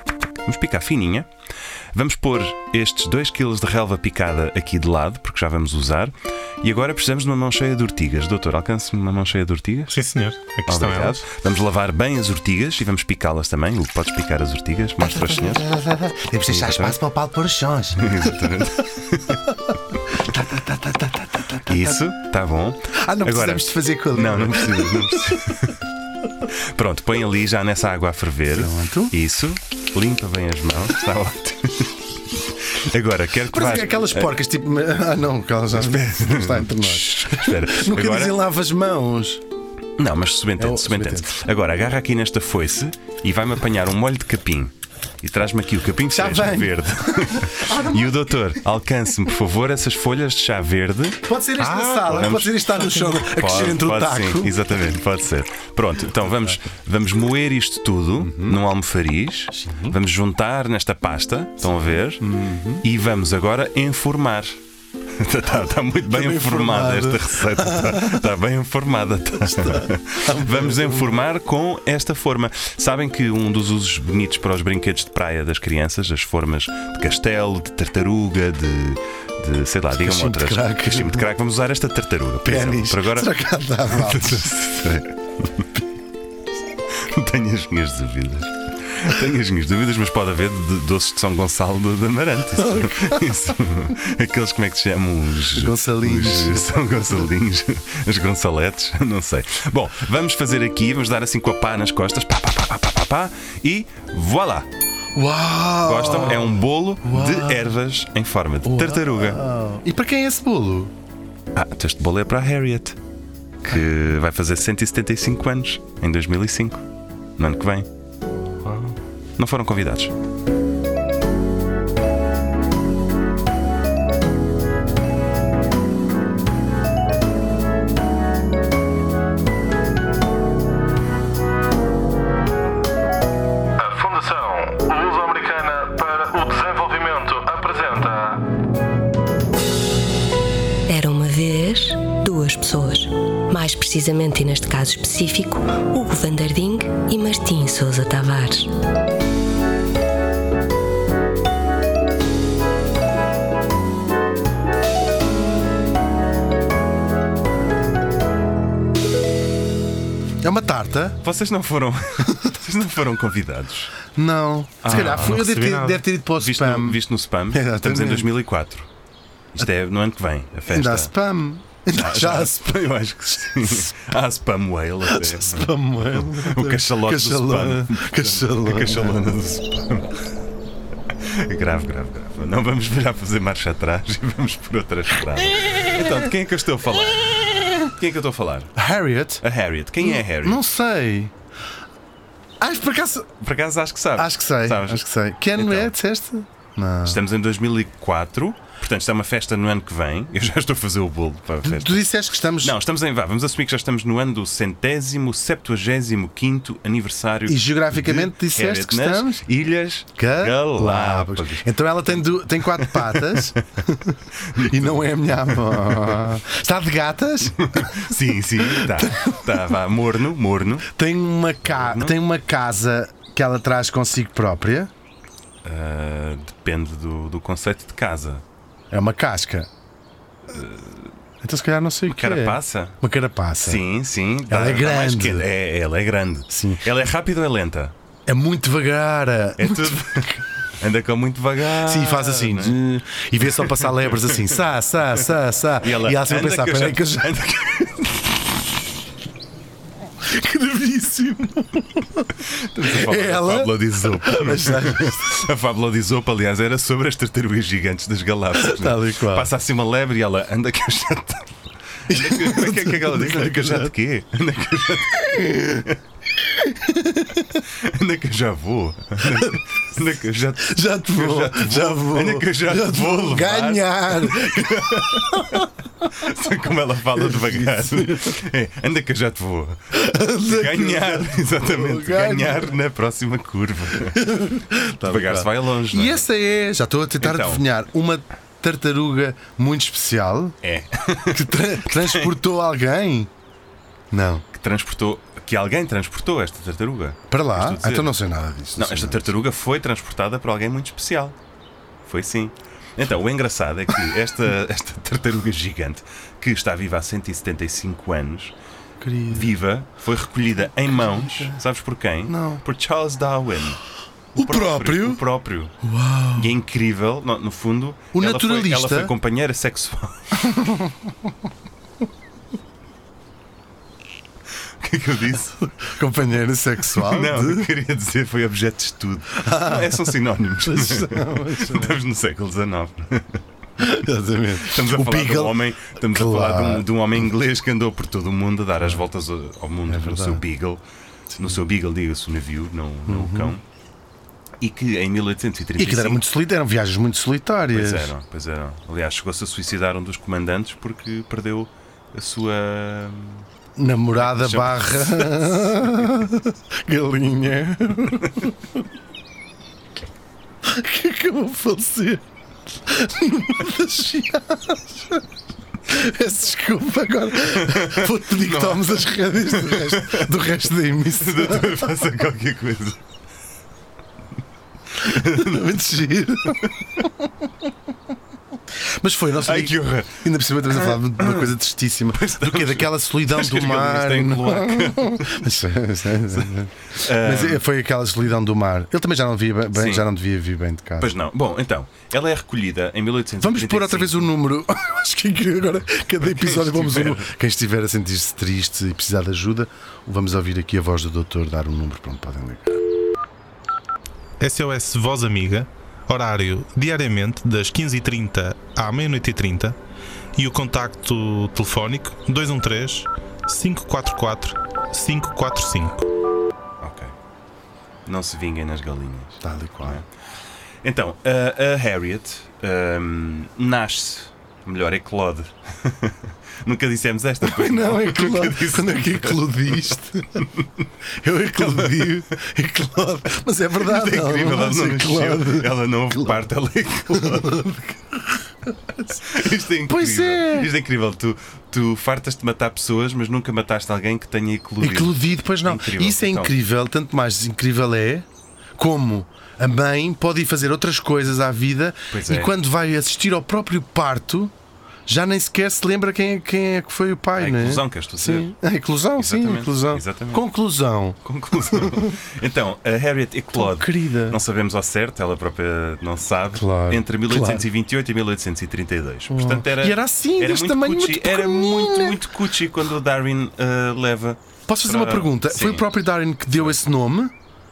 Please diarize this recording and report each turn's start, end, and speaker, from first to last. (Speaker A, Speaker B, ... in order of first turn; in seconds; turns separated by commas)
Speaker A: 0.5-1.3, Speaker A: 1.9-10.0, Speaker B: 9.9-11.2, Speaker A: 10.7-15.7, Speaker C: 15.2-18.5, Speaker A: 16.5-17.0, Speaker A: 18.0-19.5, Speaker C: 20.1-22.0, Speaker A: 21.6-25.8, Speaker C: 22.9-25.6, Speaker A: 26.4-34.3, Speaker C: 28.5-29.1, Speaker C: 33.5-39.4, Speaker A: 35.7-38.4, Speaker A: 40.0-62.3, Speaker C: 40.6-41.3, Speaker C: 46.1-48.1, Speaker C: 51.2-54.6, Speaker B: 51.6-52.1, Speaker C: 58.2-58.6, Speaker C: 59.5-60.0, Speaker C: 62.2-62.8, Speaker A: 62.8-64.6, Speaker A: 65.1-83.3, Speaker C: 66.1-68.3, Speaker C: 69.4-71.2, Speaker C: 79.9-81.3, Speaker C: 82.4-84.5, Speaker A: 83.8-85.7, Speaker A: 86.9-104.7, Speaker C: 92.5-93.5, Speaker C: 95.5-97.3, Speaker C: 105.1-107.7, Speaker A: 105.8-109.4, Speaker C: 108.6-110.9, Speaker A: 111.5-113.0, Speaker A: 113.6-116.8, Speaker A: 117.4-117.9, Speaker A: 119.4-120.1, Speaker D: 133.8-138.5, Speaker E: 140.9-148.7, Speaker C: 160.4-161.2, Speaker A: 161.2-163.9, Speaker C: 164.1-167.0, Speaker A: 164.8-165.4, Speaker B: 164.9-166.0, Speaker A: 166.4-168.9, Speaker C: 167.5-168.3, Speaker A: 169.5-171.1, Speaker C: 170.7-172.6, Speaker A: 171.9-180.2, Speaker C: 175.0-179.3, Speaker A: 181.2-188.8, Speaker C: 188.8-189.4, Speaker A: 189.4-190.6, Speaker C: 190.0-191.3, Speaker C: 192.6-193.3, Speaker A: 193.4-195.9, Speaker C: 194.2-197.2, Speaker A: 197.0-202.0, Speaker C: 201.6-202.8, Speaker A: 202.6-213.6, Speaker C: 207.5-209.4, Speaker C: 210.2-218.0, Speaker A: 214.3-216.3, Speaker A: 217.5-220.9, Speaker C: 218.6-219.6, Speaker C: 220.8-224.9, Speaker A: 221.6-222.2, Speaker A: 225.6-228.4, Speaker C: 228.9-229.7, Speaker A: 230.5-231.1, Speaker C: 231.4-233.8, Speaker A: 232.1-233.0, Speaker A: 233.6-237.9, Speaker C: 234.4-235.5, Speaker C: 236.5-236.8, Speaker C: 238.3-240.4, Speaker A: 239.6-242.8, Speaker C: 241.7-247.4, Speaker A: 243.4-244.5, Speaker A: 245.8-248.4, Speaker C: 250.2-252.3, Speaker A: 252.4-265.9, Speaker C: 252.8-255.4, Speaker C: 258.5-259.5, Speaker C: 262.1-263.9, Speaker C: 265.1-267.6, Speaker A: 267.6-279.8, Speaker C: 269.2-269.6, Speaker C: 270.6-275.7, Speaker C: 277.1-278.4, Speaker C: 279.9-282.8, Speaker A: 280.4-284.3, Speaker C: 284.0-290.6, Speaker A: 285.0-286.2, Speaker A: 287.2-287.6, Speaker A: 290.6-292.4, Speaker C: 291.3-293.3, Speaker C: 294.1-294.4, Speaker A: 294.5-298.1, Speaker C: 297.3-299.3, Speaker A: 298.8-301.4, Speaker A: 302.0-308.5, Speaker C: 309.0-309.5, Speaker A: 309.3-313.8, Speaker C: 310.8-311.6, Speaker C: 312.3-312.6, Speaker A: 314.3-315.7, Speaker C: 314.3-315.2, Speaker C: 315.8-316.5, Speaker A: 316.3-320.4, Speaker C: 318.1-319.1, Speaker C: 320.4-321.1, Speaker A: 324.8-325.7, Speaker C: 325.8-327.7, Speaker A: 326.9-333.4, Speaker C: 329.4-332.0, Speaker C: 333.8-336.9, Speaker A: 334.6-343.6, Speaker C: 339.9-340.4, Speaker C: 343.1-343.5, Speaker A: 344.6-346.2, Speaker C: 345.8-348.1, Speaker A: 347.7-353.5, Speaker C: 353.8-358.8, Speaker A: 354.2-355.9, Speaker C: 360.6-362.2, Speaker C: 362.8-365.2, Speaker C: 365.9-372.0, Speaker A: 367.5-370.3, Speaker A: 371.2-373.0, Speaker A: 375.0-375.7, Speaker C: 375.0-377.3, Speaker C: 378.7-391.1, Speaker A: 379.4-381.5, Speaker A: 382.1-385.4, Speaker A: 386.3-387.6, Speaker A: 389.7-390.0, Speaker A: 391.0-394.3, Speaker C: 393.4-402.8, Speaker A: 396.2-397.3, Speaker B: 404.4-409.8, Speaker B: 410.4-416.1, Speaker A: 416.8-417.1, Speaker A: 418.1-420.1, Speaker C: 419.4-420.0, Speaker A: 420.8-430.8, Speaker C: 427.4-430.4, Speaker C: 431.2-436.5, Speaker A: 431.5-432.2, Speaker A: 433.8-437.7, Speaker C: 437.1-438.9, Speaker A: 439.1-446.5, Speaker C: 439.9-440.7, Speaker C: 444.8-448.2, Speaker C: 448.8-454.5, Speaker A: 452.1-452.5, Speaker C: 455.1-461.2, Speaker A: 457.4-458.5, Speaker A: 459.2-460.4, Speaker A: 461.2-475.9, Speaker C: 461.7-462.1, Speaker C: 463.5-464.4, Speaker C: 466.5-467.6, Speaker C: 469.3-472.2, Speaker C: 474.7-477.3